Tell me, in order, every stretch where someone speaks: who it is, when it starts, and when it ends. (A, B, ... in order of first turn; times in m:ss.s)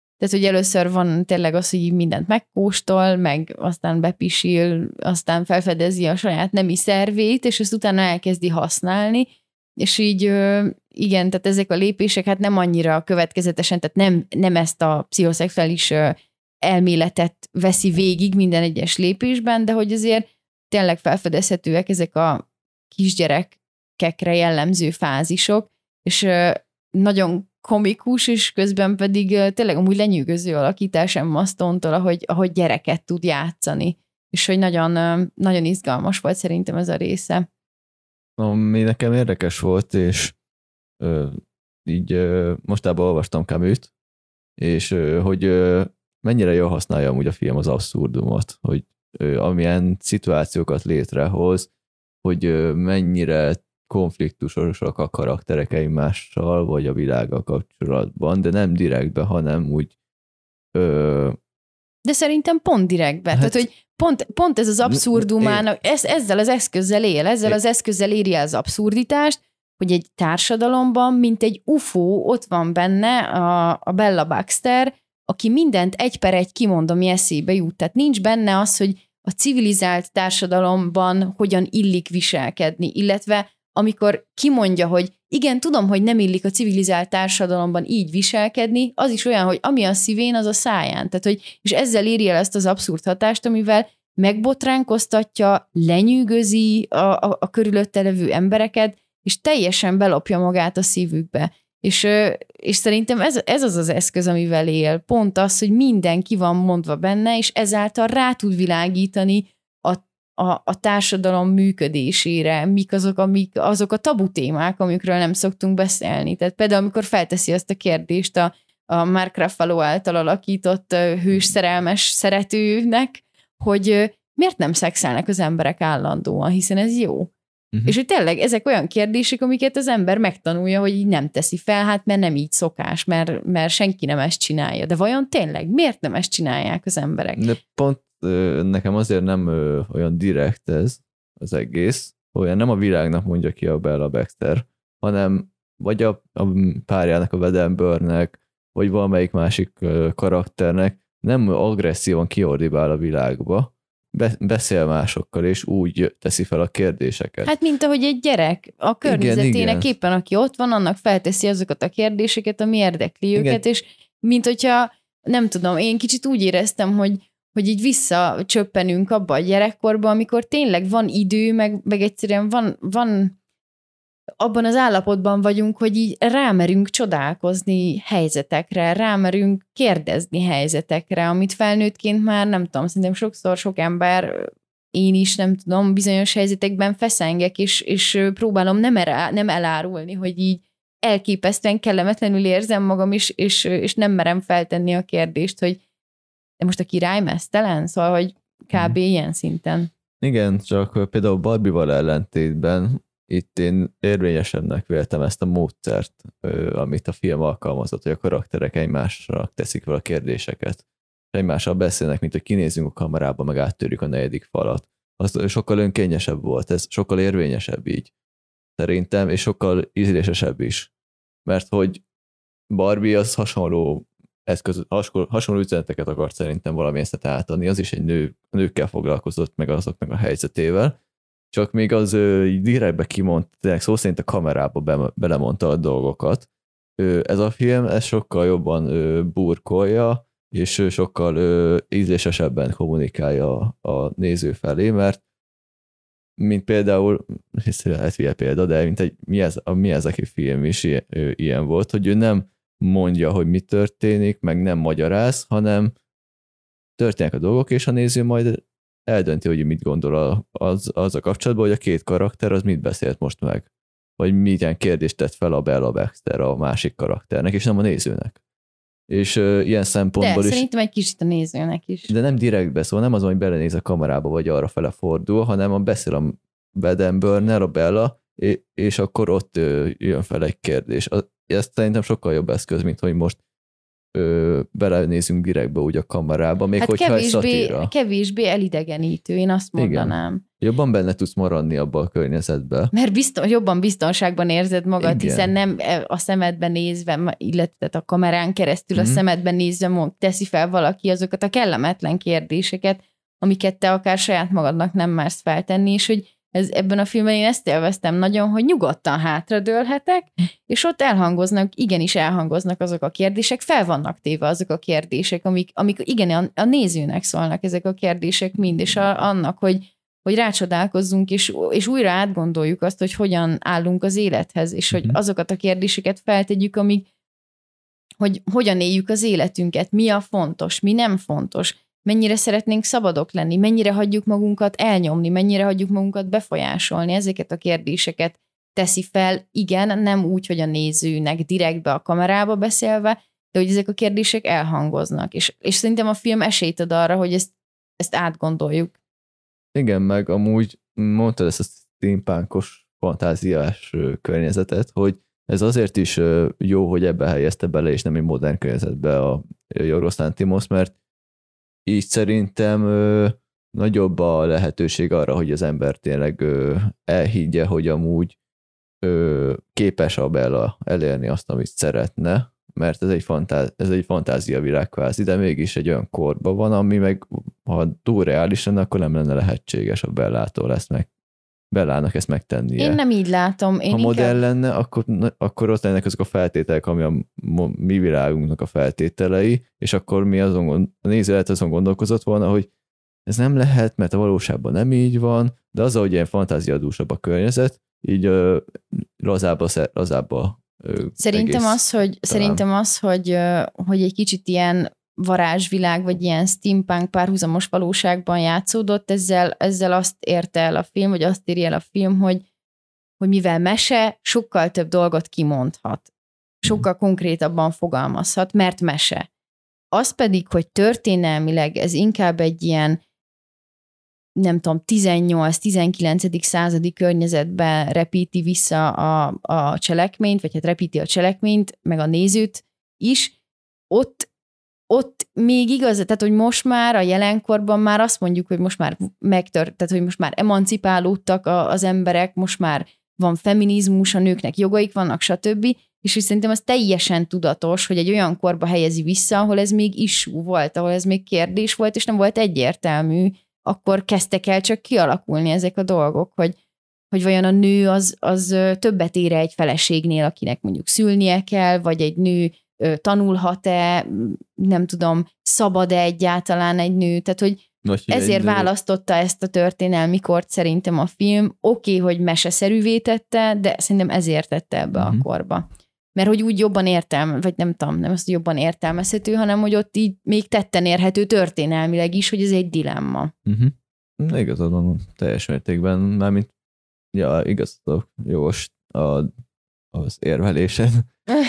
0:00.2-0:09.3 A
0:09.8-0:37.4 A
0:38.4-0:40.3 B
0:41.0-0:43.9 B
0:44.6-0:51.7 B
0:52.2-0:59.9 B
1:00.7-1:01.4 B
1:02.0-2:07.3 A
1:03.3-1:03.6 B
1:04.8-1:05.6 B
2:07.8-2:17.5 A
2:17.4-2:37.5 B
2:37.4-2:53.4 A
2:39.0-2:39.9 B
2:43.3-2:43.6 B
2:54.4-3:15.8 A
3:16.6-3:19.9 A
3:20.2-3:38.1 B
3:38.8-3:40.9 B
3:41.4-3:42.0 B
3:42.7-3:51.0 B
3:51.5-3:56.5 B
3:57.0-4:05.2 B
4:06.4-4:15.9 B
4:17.0-4:23.7 B
4:24.2-4:28.4 B
4:29.1-4:30.6 B
4:30.2-4:32.1 A
4:32.1-4:43.4 B
4:44.1-4:47.9 B
4:46.8-4:50.4 A
4:49.8-4:52.9 B
4:52.9-5:27.1 A
4:55.0-4:55.5 B
4:58.9-4:59.2 B
5:28.2-5:48.9 A
5:49.7-6:00.9 B
6:01.8-6:08.4 B
6:09.0-6:21.1 B
6:21.7-6:23.0 B
6:22.8-6:24.4 A
6:23.9-6:32.7 B
6:33.3-6:42.6 B
6:41.2-6:52.4 A
6:53.2-6:56.1 A
6:56.6-6:59.3 A
6:59.9-7:03.0 A
7:04.4-7:13.3 A
7:13.9-7:14.3 A
7:14.9-7:36.6 A
7:37.1-8:03.3 A
7:47.8-7:48.7 B
7:55.0-7:55.2 B
8:03.4-8:06.5 B
8:07.1-8:09.3 B
8:09.9-8:11.1 B